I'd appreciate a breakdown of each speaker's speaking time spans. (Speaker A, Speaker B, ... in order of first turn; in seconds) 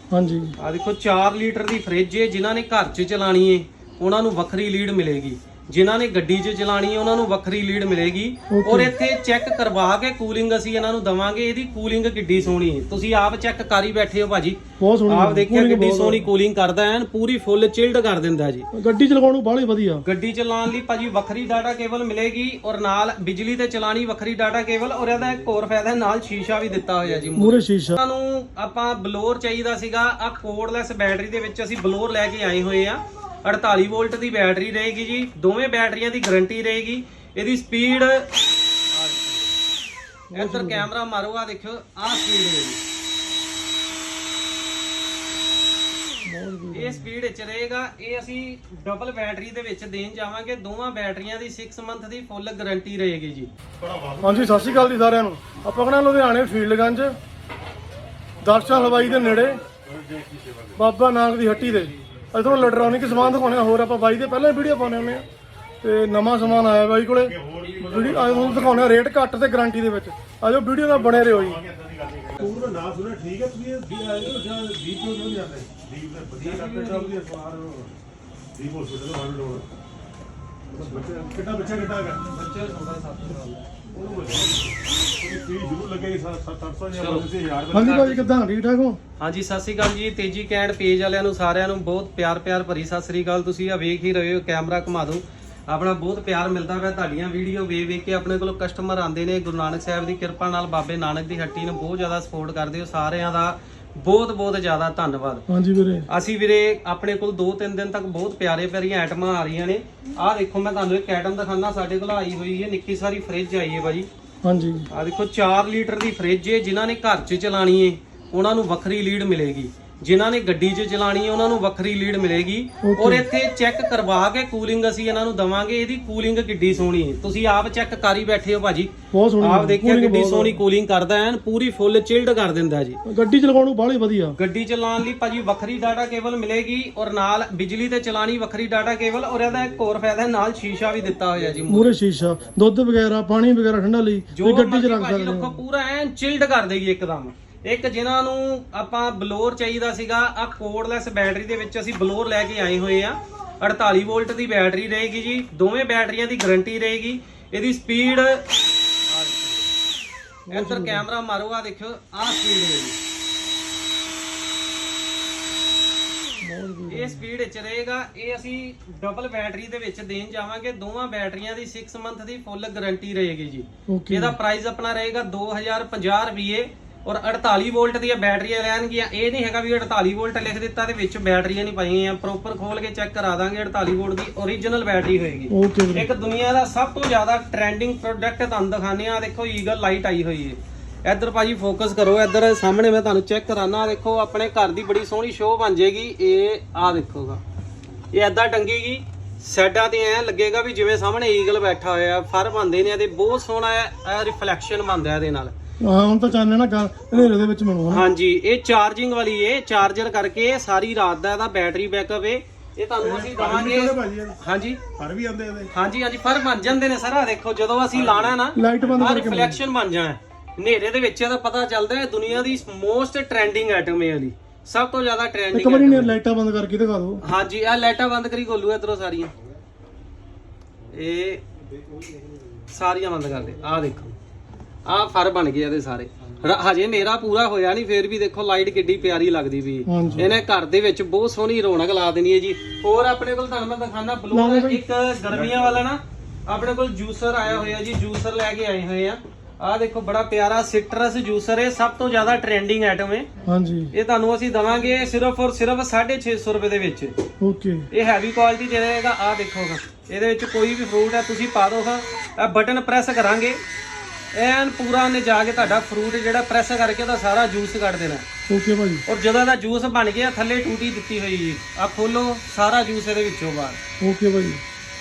Speaker A: 0.1-0.6, 8.5-8.9, 14.8-16.2, 18.7-20.0, 27.4-28.0, 40.3-40.9, 46.2-47.1, 54.2-57.2, 58.4-59.6, 60.8-65.2, 65.8-71.6, 87.7-89.0, 105.5-106.1, 114.4-114.9, 122.8-123.2, 129.1-130.6, 133.1-134.4, 141.7-145.6, 160.5-161.1, 166.4-167.2, 173.9-174.4, 185.5-186.1, 205.8-208.0, 218.6-219.6, 225.5-227.2, 239.9-240.3, 244.3-244.8, 253.4-253.9, 257.4-257.9, 268.5-269.0, 274.0-274.6
Speaker B: 0.6-18.7, 20.1-38.3, 38.9-39.5, 40.4-42.8, 46.7-53.5, 67.7-68.1, 76.4-77.1, 80.7-81.0, 82.3-83.7, 86.9-87.3, 87.8-88.2, 89.2-105.4, 106.1-114.1, 114.9-133.0, 134.4-142.0, 144.3-158.5, 159.1-159.6, 160.5-163.0, 166.9-197.4, 198.1-205.5, 207.9-214.8, 215.7-226.1, 227.2-229.3, 230.9-231.4, 232.7-234.1, 234.9-253.3, 253.9-257.1, 257.9-263.6, 264.3-268.2, 269.1-273.8
Speaker C: 53.8-55.1, 58.5-60.8, 61.7-65.2, 66.4-69.0, 70.8-77.9, 78.5-79.7, 80.8-82.3, 83.9-88.2, 213.0-214.4, 215.0-215.7, 217.9-218.3